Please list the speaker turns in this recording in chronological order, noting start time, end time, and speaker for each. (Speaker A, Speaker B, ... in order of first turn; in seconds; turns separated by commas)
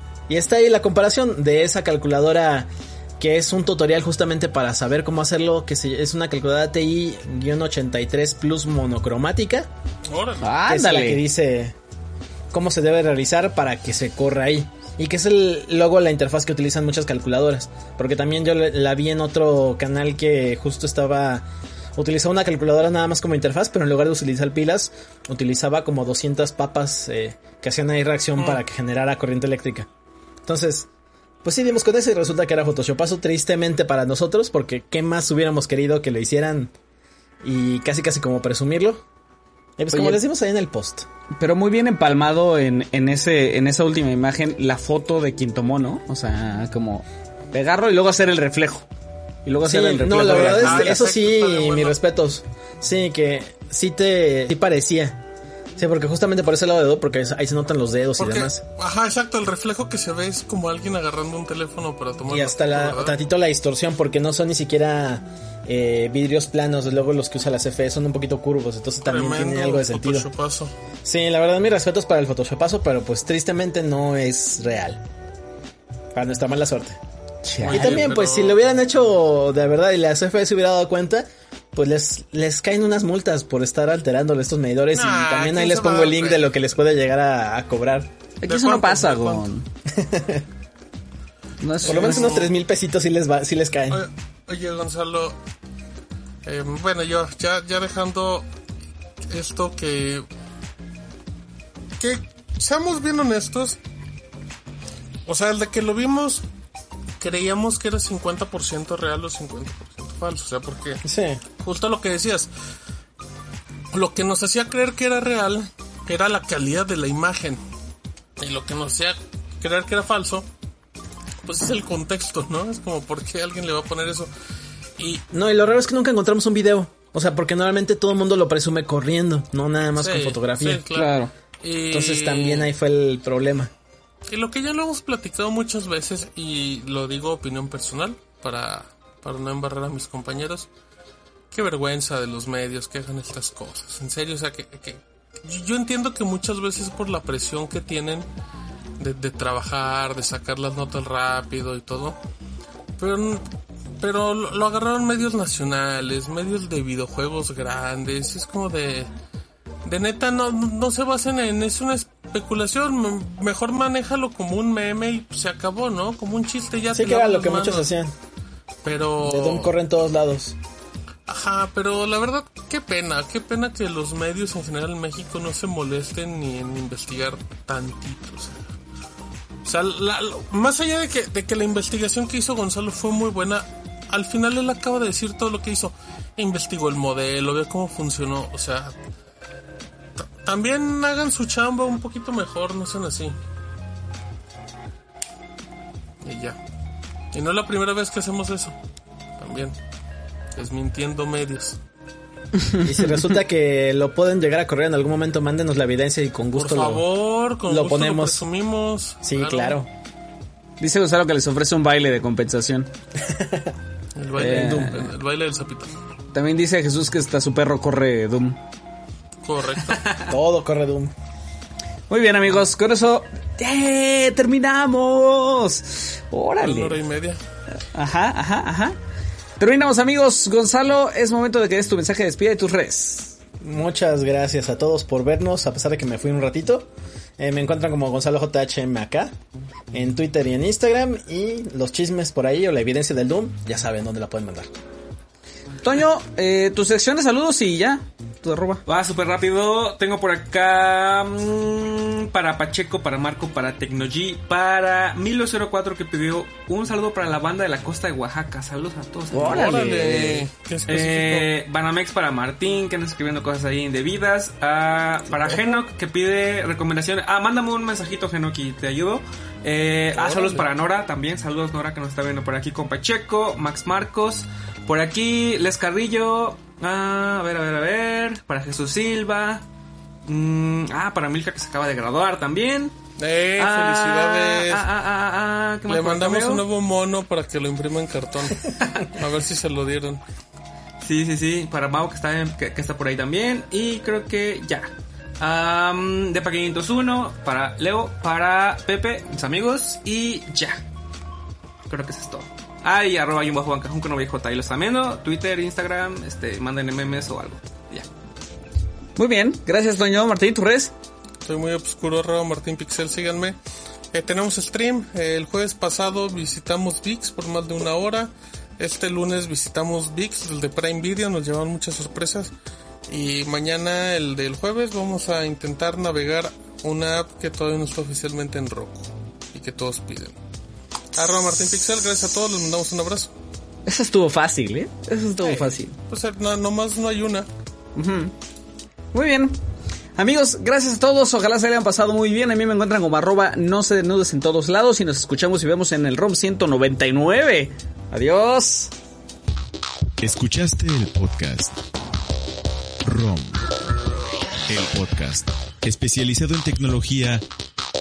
Speaker A: 0.3-9.7, Speaker B: 10.1-10.5, Speaker C: 10.4-11.2, Speaker A: 10.7-11.7, Speaker A: 12.5-29.9, Speaker B: 28.4-28.6, Speaker A: 30.4-30.9, Speaker A: 31.4-36.7, Speaker A: 37.4-39.0, Speaker A: 39.8-41.1, Speaker C: 39.9-40.2, Speaker C: 41.4-48.9, Speaker C: 49.4-51.0, Speaker A: 49.6-55.2, Speaker B: 50.1-52.0, Speaker A: 55.8-58.6, Speaker B: 58.2-63.2, Speaker A: 62.3-70.3, Speaker B: 69.0-70.7, Speaker A: 71.0-75.0, Speaker A: 76.1-77.0, Speaker C: 77.4-78.1, Speaker B: 77.6-78.6, Speaker A: 77.6-88.1, Speaker B: 84.9-86.5, Speaker C: 88.4-89.7, Speaker B: 88.5-89.5, Speaker A: 89.9-90.4, Speaker C: 91.6-92.5, Speaker B: 91.8-92.5, Speaker A: 91.8-94.0, Speaker B: 93.9-95.3, Speaker B: 96.4-98.5, Speaker B: 99.2-100.2, Speaker B: 102.0-103.8, Speaker B: 105.2-106.4, Speaker B: 107.2-111.0, Speaker A: 111.0-111.4, Speaker B: 111.6-112.5, Speaker B: 113.9-117.6, Speaker B: 118.4-120.5, Speaker B: 121.4-124.3, Speaker B: 125.0-125.2, Speaker A: 125.3-130.8, Speaker B: 129.9-132.7, Speaker C: 130.9-131.3, Speaker A: 131.9-133.7, Speaker B: 134.3-140.7, Speaker B: 141.5-148.2, Speaker B: 149.0-152.2, Speaker B: 153.0-153.4, Speaker B: 154.0-159.1, Speaker B: 159.8-167.9, Speaker A: 166.9-168.1, Speaker B: 168.8-169.7, Speaker A: 169.2-170.5, Speaker B: 171.3-178.6, Speaker B: 179.6-188.9, Speaker B: 190.2-193.3, Speaker B: 196.2-196.6, Speaker B: 197.3-198.7, Speaker B: 199.4-199.8, Speaker B: 200.5-201.8, Speaker C: 202.6-203.1, Speaker A: 202.8-207.0, Speaker B: 206.6-209.8, Speaker A: 207.7-208.4, Speaker A: 209.2-209.9, Speaker C: 210.8-212.9, Speaker A: 213.3-213.7, Speaker B: 214.2-216.0, Speaker C: 214.4-215.1, Speaker C: 216.3-218.6, Speaker B: 219.4-220.2, Speaker A: 220.3-221.1, Speaker C: 222.1-227.0, Speaker B: 226.6-227.4, Speaker C: 227.9-228.9, Speaker C: 229.6-233.3, Speaker A: 233.6-239.3, Speaker A: 239.9-244.7, Speaker C: 245.8-248.8, Speaker D: 248.8-259.7, Speaker C: 259.3-260.5, Speaker B: 259.3-261.5, Speaker D: 260.9-279.6, Speaker B: 265.3-265.8, Speaker B: 270.1-270.6, Speaker D: 280.2-282.9, Speaker B: 283.2-284.9, Speaker D: 283.6-286.6, Speaker B: 285.9-290.2, Speaker D: 288.8-289.1, Speaker D: 291.0-300.8, Speaker D: 301.9-308.1, Speaker C: 309.1-310.9, Speaker B: 311.4-313.6, Speaker B: 314.1-322.5, Speaker B: 323.1-330.4, Speaker B: 331.1-333.3, Speaker C: 333.9-335.9, Speaker B: 335.4-337.5, Speaker C: 337.9-338.3, Speaker C: 339.1-339.6, Speaker C: 340.1-348.9, Speaker E: 350.2-351.7, Speaker E: 353.0-353.6, Speaker E: 354.7-357.4